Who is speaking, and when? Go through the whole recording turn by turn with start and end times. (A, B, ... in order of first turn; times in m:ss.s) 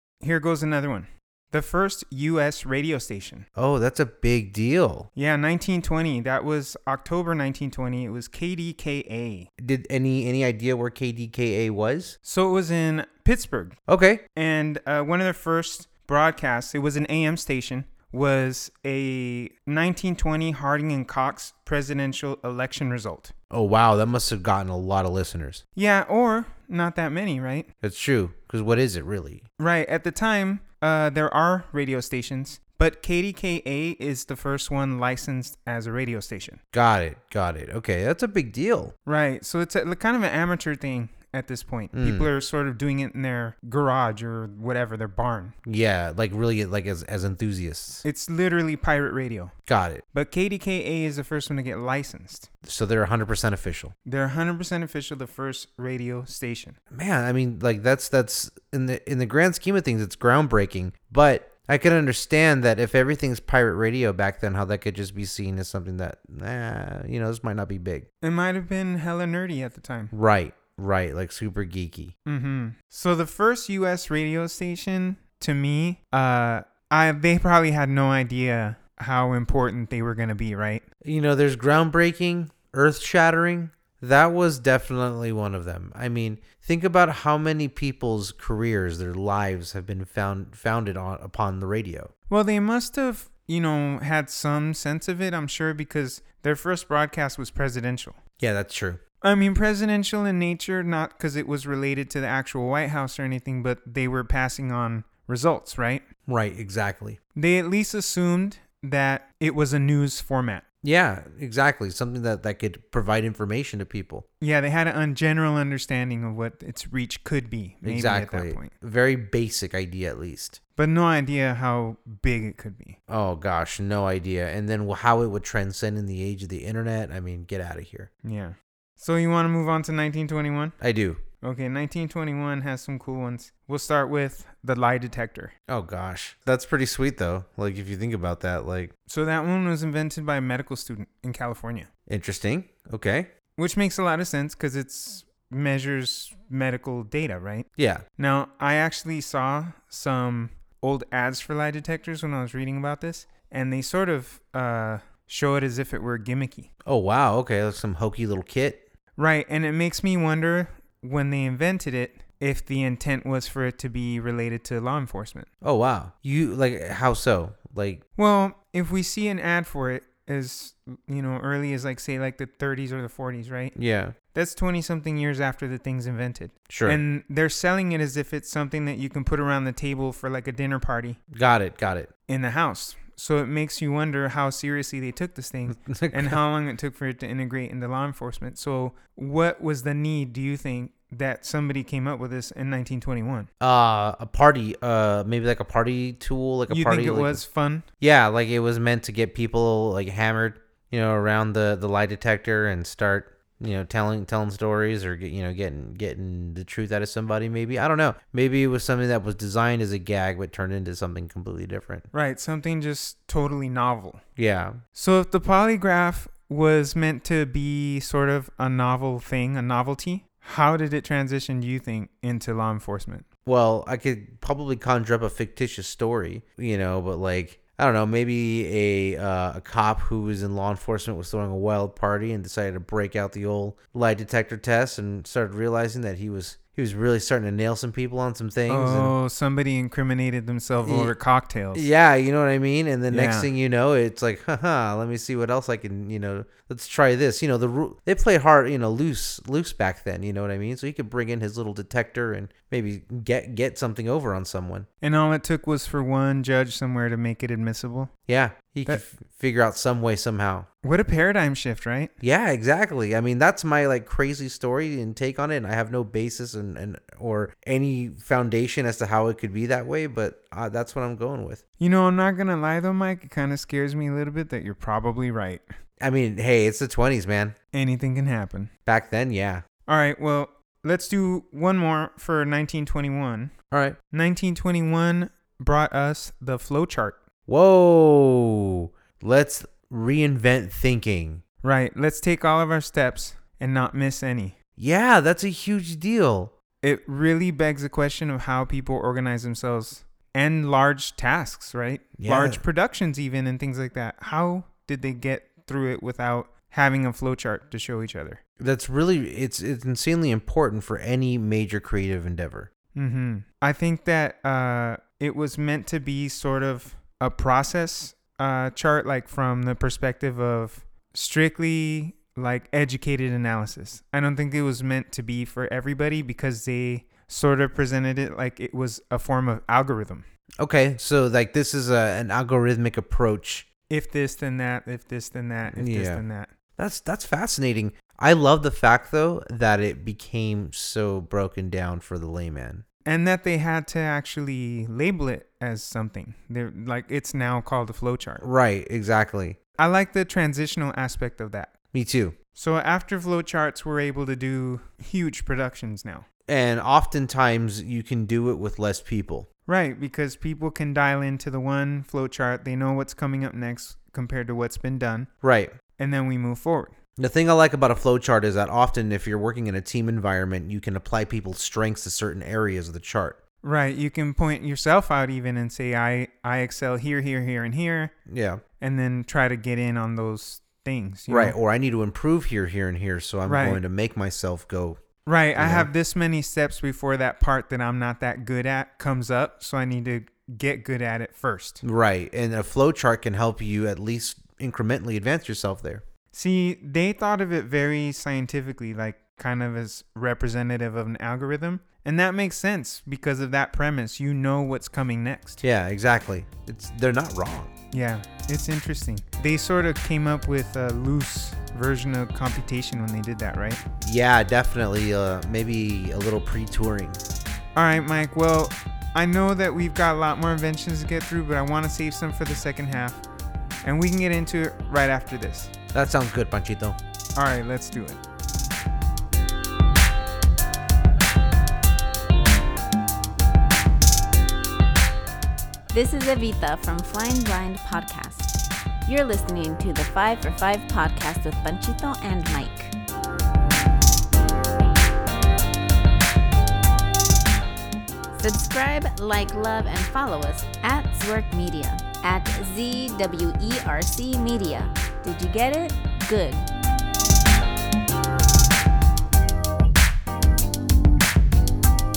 0:00.2-0:03.4 A
0:03.5-0:05.1 B
0:05.2-0:09.5 A
0:09.6-0:12.2 B
0:12.2-0:13.8 A
0:13.9-0:14.2 B
0:14.3-0:23.3 A
0:23.5-0:25.6 B
0:25.8-0:27.7 A
0:27.8-0:29.4 B
0:29.6-0:36.6 A
0:36.7-0:38.9 B
0:39.0-0:45.5 A
0:41.9-0:42.3 B
0:45.6-0:48.0 B
0:48.0-0:49.5 A
0:49.7-0:50.0 B
0:50.1-0:52.5 A
0:52.6-0:53.9 B
0:54.0-0:56.8 A
0:56.9-1:08.0 B
1:08.2-1:10.1 A
1:10.1-1:12.1 B
1:12.2-1:20.8 A
1:21.0-1:32.1 B
1:32.3-1:38.2 A
1:38.4-1:39.0 B
1:39.2-1:46.0 A
1:46.3-1:47.2 B
1:47.4-1:50.6 A
1:50.8-1:54.2 B
1:54.4-1:58.7 A
1:57.8-2:00.6 B
2:00.8-2:03.0 A
2:03.1-2:08.1 B
2:08.2-2:10.8 A
2:10.8-2:11.2 B
2:11.4-2:15.5 A
2:15.7-2:18.9 B
2:19.1-2:21.9 A
2:22.1-2:23.3 B
2:23.6-2:36.7 A
2:27.8-2:28.0 B
2:36.8-2:38.8 B
2:39.2-2:45.5 A
2:45.6-2:48.0 B
2:48.2-2:53.7 A
2:53.7-2:54.1 B
2:54.3-3:01.2 A
2:56.7-2:57.0 B
3:01.3-3:02.1 B
3:02.3-3:13.5 A
3:05.7-3:06.4 B
3:13.6-3:17.4 B
3:16.7-3:17.8 A
3:18.0-3:32.1 B
3:32.1-3:34.2 A
3:34.4-3:34.8 B
3:35.0-3:43.2 A
3:43.4-3:59.1 B
3:58.7-4:01.9 A
4:00.8-4:01.2 B
4:01.7-4:14.9 B
4:03.1-4:03.5 A
4:15.0-4:18.1 A
4:18.3-4:20.7 B
4:20.8-4:22.1 A
4:22.2-4:31.6 B
4:31.8-4:35.6 A
4:36.0-4:37.6 B
4:37.7-4:38.7 A
4:38.8-4:39.6 B
4:39.8-4:43.5 A
4:43.7-4:44.0 B
4:44.1-4:47.2 A
4:47.5-4:51.4 B
4:51.6-4:54.5 A
4:54.8-4:56.5 B
4:56.8-5:08.4 A
5:02.2-5:02.6 B
5:08.6-5:12.7 B
5:12.9-5:30.2 A
5:30.6-5:33.6 B
5:33.9-5:36.5 A
5:35.7-5:36.2 B
5:36.8-5:42.8 B
5:43.0-5:48.4 A
5:48.4-5:49.6 B
5:49.8-5:51.7 A
5:51.9-5:52.4 B
5:52.5-5:56.2 A
5:56.5-5:59.5 B
5:59.6-6:05.3 A
6:05.4-6:05.7 B
6:06.0-6:06.9 A
6:07.2-6:13.4 B
6:13.6-6:18.1 A
6:18.3-6:18.6 B
6:18.8-6:21.6 A
6:21.3-6:25.0 B
6:23.4-6:23.8 A
6:25.2-6:31.8 A
6:25.6-6:25.9 B
6:31.8-6:36.0 B
6:36.3-6:45.6 A
6:45.6-6:47.7 B
6:47.9-6:53.8 A
6:54.0-6:57.2 B
6:57.8-7:03.2 A
7:03.8-7:05.7 A
7:05.9-7:07.0 B
7:07.4-7:08.2 A
7:15.9-7:22.9 C
7:28.3-7:36.7 C